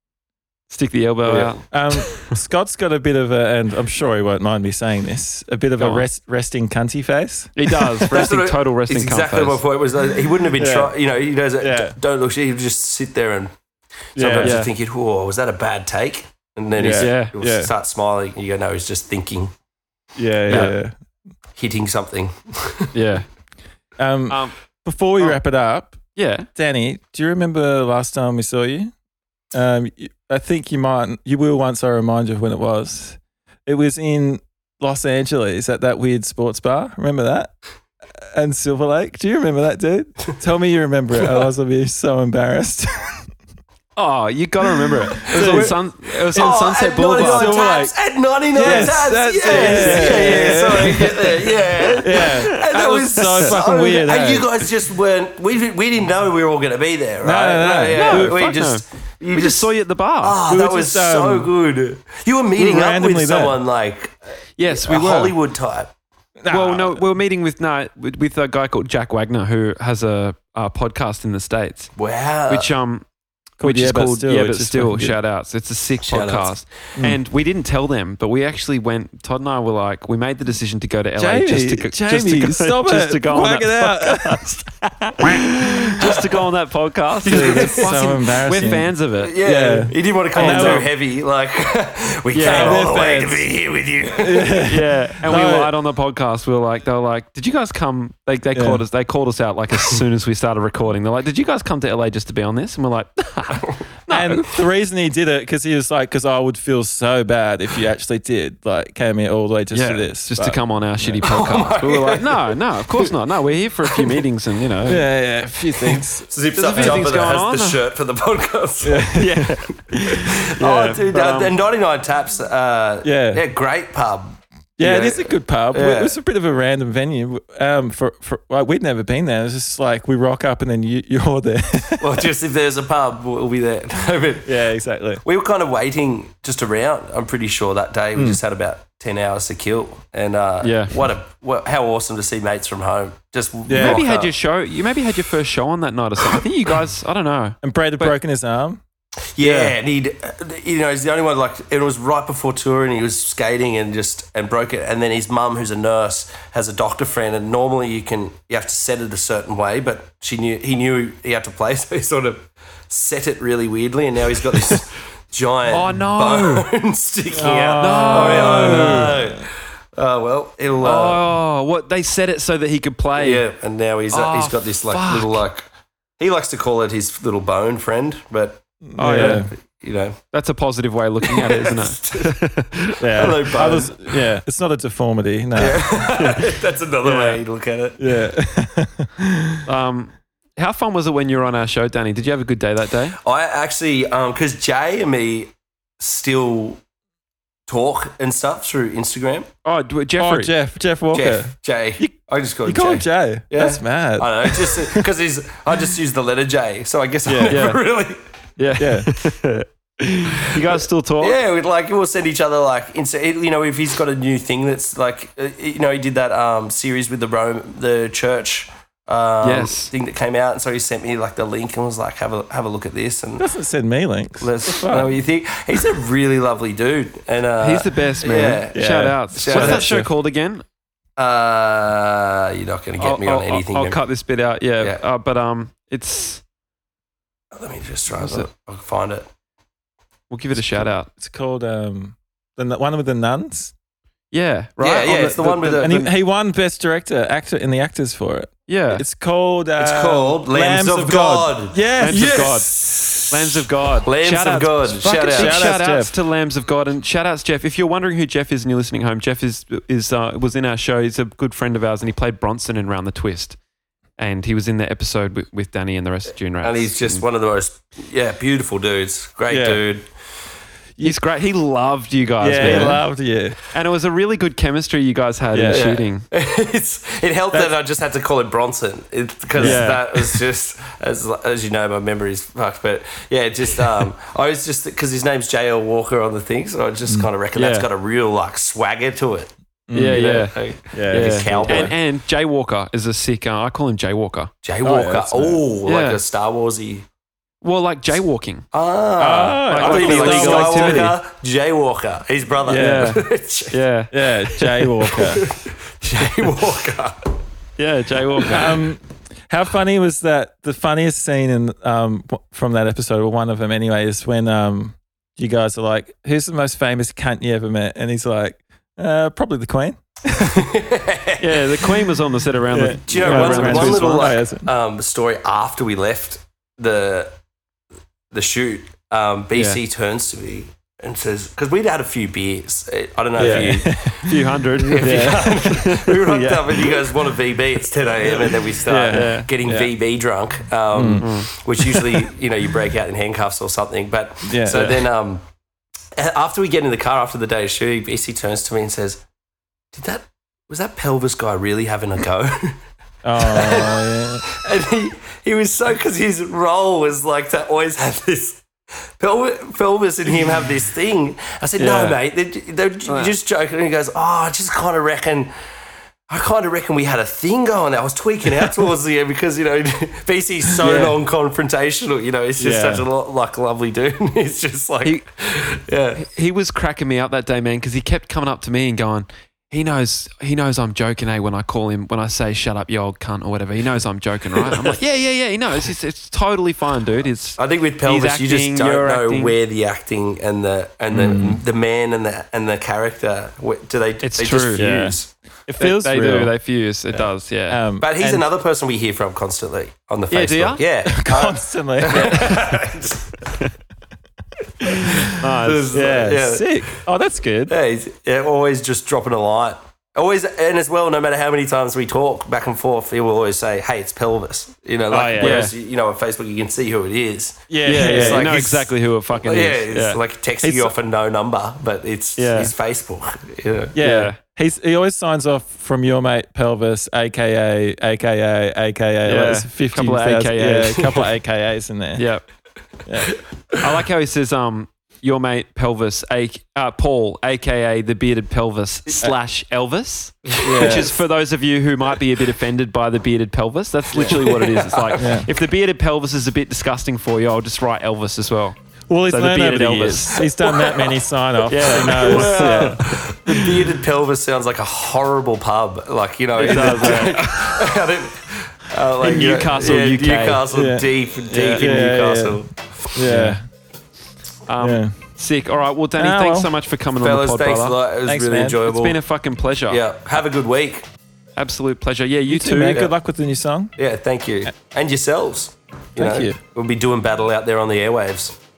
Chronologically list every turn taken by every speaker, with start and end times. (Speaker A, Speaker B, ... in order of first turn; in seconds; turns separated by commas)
Speaker A: 0.7-2.2, Speaker B: 1.2-1.6, Speaker C: 1.7-8.1, Speaker A: 5.8-6.0, Speaker A: 7.5-9.6, Speaker B: 8.1-13.5, Speaker C: 10.5-10.9, Speaker C: 11.6-12.0, Speaker B: 14.1-19.5, Speaker C: 14.2-14.6, Speaker A: 14.4-14.7, Speaker C: 16.8-17.7, Speaker A: 16.9-17.3, Speaker C: 20.1-20.9, Speaker A: 20.5-20.7, Speaker B: 21.6-22.9, Speaker A: 22.9-23.2, Speaker C: 24.0-26.0, Speaker A: 24.3-24.5, Speaker A: 26.1-26.5, Speaker C: 26.5-28.9, Speaker C: 29.5-37.5, Speaker C: 38.2-43.3, Speaker A: 44.0-47.6, Speaker B: 45.2-45.8, Speaker C: 45.3-45.7, Speaker B: 46.3-59.7, Speaker C: 47.1-47.9, Speaker C: 48.5-54.5, Speaker A: 48.6-48.9, Speaker A: 49.5-51.0, Speaker A: 51.8-52.4, Speaker C: 57.2-58.5, Speaker A: 57.9-60.4, Speaker B: 60.2-65.9, Speaker C: 60.5-61.5, Speaker C: 62.5-63.6, Speaker A: 64.6-65.3, Speaker C: 66.4-67.0, Speaker A: 66.5-71.9, Speaker B: 72.0-72.7, Speaker A: 72.5-73.0, Speaker A: 73.6-84.6, Speaker C: 73.6-75.2, Speaker B: 76.0-76.6, Speaker C: 81.2-85.5, Speaker A: 85.2-89.3, Speaker C: 87.2-90.9, Speaker B: 87.3-87.9, Speaker B: 89.2-94.6, Speaker A: 90.3-90.9, Speaker A: 92.3-92.9, Speaker C: 92.4-93.5, Speaker C: 94.0-95.7, Speaker A: 94.6-104.6, Speaker C: 98.5-98.8, Speaker C: 104.1-111.2, Speaker A: 109.7-115.0, Speaker B: 111.2-113.1, Speaker B: 113.8-114.2, Speaker C: 114.8-117.0, Speaker B: 115.8-119.2, Speaker A: 116.5-117.8, Speaker C: 118.8-119.4, Speaker A: 119.1-121.5, Speaker B: 120.1-126.2, Speaker C: 123.0-123.4, Speaker C: 124.8-132.3, Speaker B: 132.0-134.5, Speaker C: 134.4-135.2, Speaker B: 135.2-144.3, Speaker A: 140.6-141.0, Speaker C: 143.7-144.0, Speaker A: 143.8-148.1, Speaker C: 147.6-148.8, Speaker B: 149.3-171.2, Speaker C: 149.4-149.7, Speaker A: 165.7-166.7, Speaker C: 167.3-169.5, Speaker A: 167.8-169.1, Speaker A: 170.8-173.4, Speaker B: 173.2-175.7, Speaker A: 174.1-175.4, Speaker B: 176.2-180.2, Speaker C: 178.9-179.5, Speaker A: 179.0-179.4, Speaker A: 180.3-183.3, Speaker B: 181.2-182.3, Speaker C: 183.0-186.4, Speaker B: 183.1-184.2, Speaker B: 185.5-188.1, Speaker C: 188.0-189.7, Speaker A: 189.7-193.2, Speaker B: 193.2-196.8, Speaker B: 197.7-199.5, Speaker A: 199.6-200.5, Speaker C: 200.2-202.1, Speaker B: 201.1-208.2, Speaker C: 202.6-205.1, Speaker C: 207.2-207.6, Speaker A: 207.5-207.8, Speaker A: 208.6-211.4, Speaker C: 208.8-209.1, Speaker B: 211.2-223.5, Speaker A: 219.4-219.9, Speaker C: 223.4-225.2, Speaker B: 224.4-229.9, Speaker A: 227.6-230.6, Speaker C: 228.7-230.1, Speaker B: 231.2-234.0, Speaker A: 233.0-236.4, Speaker B: 237.5-239.3, Speaker A: 238.1-238.5, Speaker A: 240.3-241.1, Speaker C: 241.1-243.7, Speaker A: 244.3-246.1, Speaker B: 244.8-246.1, Speaker C: 245.8-252.6, Speaker A: 248.7-249.0, Speaker B: 249.8-255.7, Speaker A: 252.0-263.6, Speaker C: 255.3-256.1, Speaker A: 264.2-267.2, Speaker B: 266.6-270.0, Speaker C: 269.5-269.8, Speaker A: 271.0-273.1, Speaker C: 272.4-273.6, Speaker B: 272.6-273.0, Speaker A: 273.7-276.2, Speaker C: 275.5-275.8, Speaker B: 275.7-289.5, Speaker C: 279.6-279.9, Speaker A: 279.6-280.1, Speaker A: 287.6-287.9, Speaker C: 289.9-291.9, Speaker A: 289.9-290.6, Speaker B: 290.1-291.9, Speaker A: 291.1-294.5, Speaker B: 294.6-297.0, Speaker C: 294.8-295.6, Speaker A: 295.9-296.2, Speaker A: 297.6-298.7, Speaker B: 298.7-303.8, Speaker C: 299.2-301.2, Speaker A: 299.7-301.1, Speaker C: 302.6-303.2, Speaker A: 302.8-304.9, Speaker C: 304.1-305.4, Speaker B: 305.1-307.4, Speaker A: 307.8-308.8, Speaker C: 308.5-320.6, Speaker B: 320.4-321.8, Speaker A: 321.4-324.3, Speaker C: 322.7-324.7, Speaker B: 323.1-327.3, Speaker B: 328.3-345.4, Speaker C: 333.4-334.3, Speaker A: 333.4-337.1, Speaker C: 334.9-335.5, Speaker C: 338.3-339.9, Speaker A: 339.1-339.5, Speaker C: 340.9-341.3, Speaker A: 341.2-341.5, Speaker C: 341.9-342.2, Speaker C: 344.4-344.9, Speaker A: 344.7-345.0, Speaker B: 346.1-349.2, Speaker B: 349.9-352.8, Speaker C: 353.2-354.5, Speaker B: 353.4-358.6, Speaker B: 359.2-365.5, Speaker A: 361.8-362.2, Speaker B: 366.3-376.2, Speaker C: 370.8-371.1, Speaker C: 372.6-373.0, Speaker A: 376.2-389.6, Speaker B: 387.6-395.3, Speaker C: 391.1-391.6, Speaker A: 394.2-395.1, Speaker C: 394.8-395.2, Speaker A: 395.7-397.8, Speaker C: 395.8-396.5, Speaker C: 397.7-398.4, Speaker B: 398.0-403.6, Speaker A: 400.3-400.8, Speaker C: 401.1-402.7, Speaker A: 402.1-402.6, Speaker C: 404.8-405.3, Speaker B: 405.2-407.0, Speaker A: 405.4-405.9, Speaker C: 405.9-407.7, Speaker B: 407.7-423.9, Speaker C: 415.1-415.7, Speaker A: 415.4-415.7, Speaker C: 417.7-418.5, Speaker A: 417.8-420.2, Speaker C: 420.6-420.9, Speaker A: 422.4-422.7, Speaker C: 423.9-432.2, Speaker A: 424.0-424.4, Speaker A: 429.2-431.3, Speaker A: 432.1-432.4, Speaker C: 433.1-433.3, Speaker A: 433.8-450.5, Speaker B: 440.5-441.0, Speaker C: 440.6-441.2, Speaker B: 444.1-445.4, Speaker C: 445.2-445.5, Speaker C: 449.1-453.9, Speaker B: 450.6-451.1, Speaker A: 451.6-453.0, Speaker B: 452.0-463.3, Speaker A: 456.6-457.8, Speaker C: 456.7-457.1, Speaker A: 459.2-460.6, Speaker C: 460.7-462.6, Speaker C: 463.1-463.6, Speaker A: 463.2-463.6, Speaker A: 464.7-468.0, Speaker C: 464.8-465.1, Speaker C: 466.2-466.7, Speaker B: 467.2-469.2, Speaker C: 468.2-468.8, Speaker A: 468.8-470.0, Speaker B: 469.9-471.1, Speaker A: 471.6-473.1, Speaker C: 472.5-473.9, Speaker B: 474.0-478.6, Speaker C: 476.2-476.6